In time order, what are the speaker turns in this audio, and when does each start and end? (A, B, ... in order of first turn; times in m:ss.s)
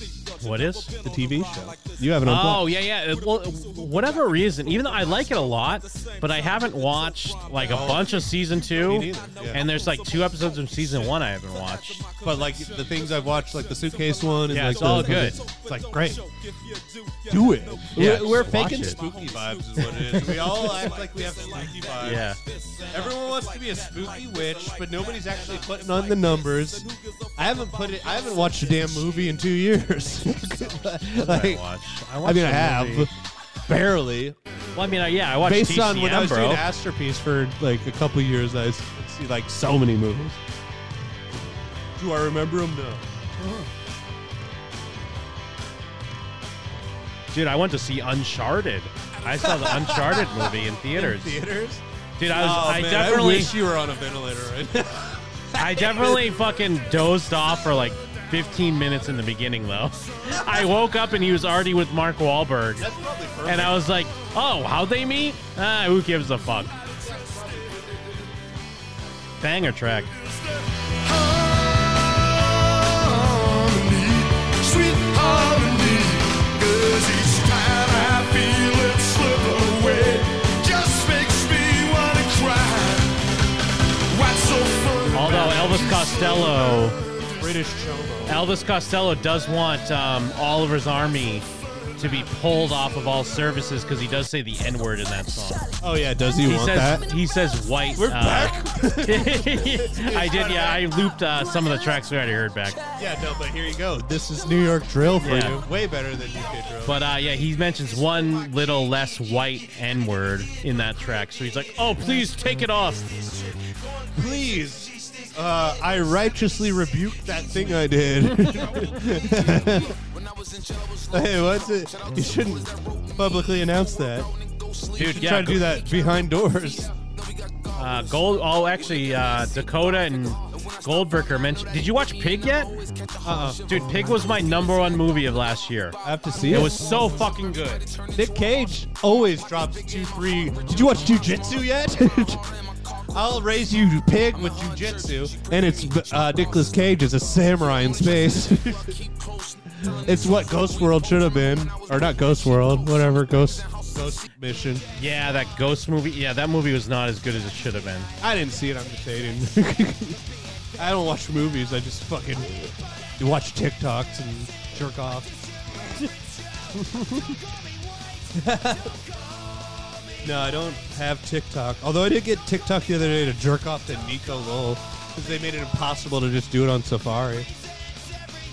0:00.4-0:01.0 A
0:01.0-0:02.7 B
0:02.2-0:12.1 A
0:07.6-0:09.6 B
0:12.2-0:16.2 B
0:14.5-0:15.4 A
0:17.3-0:22.3 B
0:18.0-0:19.0 A
0:20.0-0:20.3 A
0:22.0-0:22.4 A
0:22.9-0:31.6 B
0:31.2-0:33.1 A
0:32.2-0:33.1 B
0:33.7-0:34.4 B
0:34.8-0:36.6 A
0:35.4-0:40.4 B
0:42.0-0:43.7 B
0:47.3-0:51.4 A
0:49.4-0:56.3 B
0:52.2-0:53.5 A
0:55.6-1:02.9 A
1:02.8-1:03.8 B
1:03.5-1:06.8 A
1:09.4-1:10.1 A
1:11.0-1:23.2 C
1:24.1-1:27.4 C
1:25.1-1:27.0 A
1:27.4-1:28.5 B
1:28.3-1:31.5 A
1:32.0-1:35.7 A
1:35.8-1:37.1 B
1:36.4-1:42.8 A
1:38.0-1:40.9 B
1:43.0-1:47.0 B
1:45.2-1:45.6 A
1:46.8-1:53.1 A
1:54.1-2:00.0 B
2:01.1-2:04.3 B
2:05.0-2:05.6 A
2:05.0-2:06.9 B
2:07.8-2:12.7 A
2:13.2-2:14.0 B
2:13.7-2:17.8 A
2:16.0-2:16.8 B
2:18.1-2:22.4 B
2:23.1-2:29.0 B
2:29.7-2:34.8 B
2:35.0-2:38.1 A
2:38.2-2:40.2 B
2:40.8-2:45.3 B
2:46.7-2:47.3 B
2:48.4-2:48.9 B
2:50.2-2:57.5 B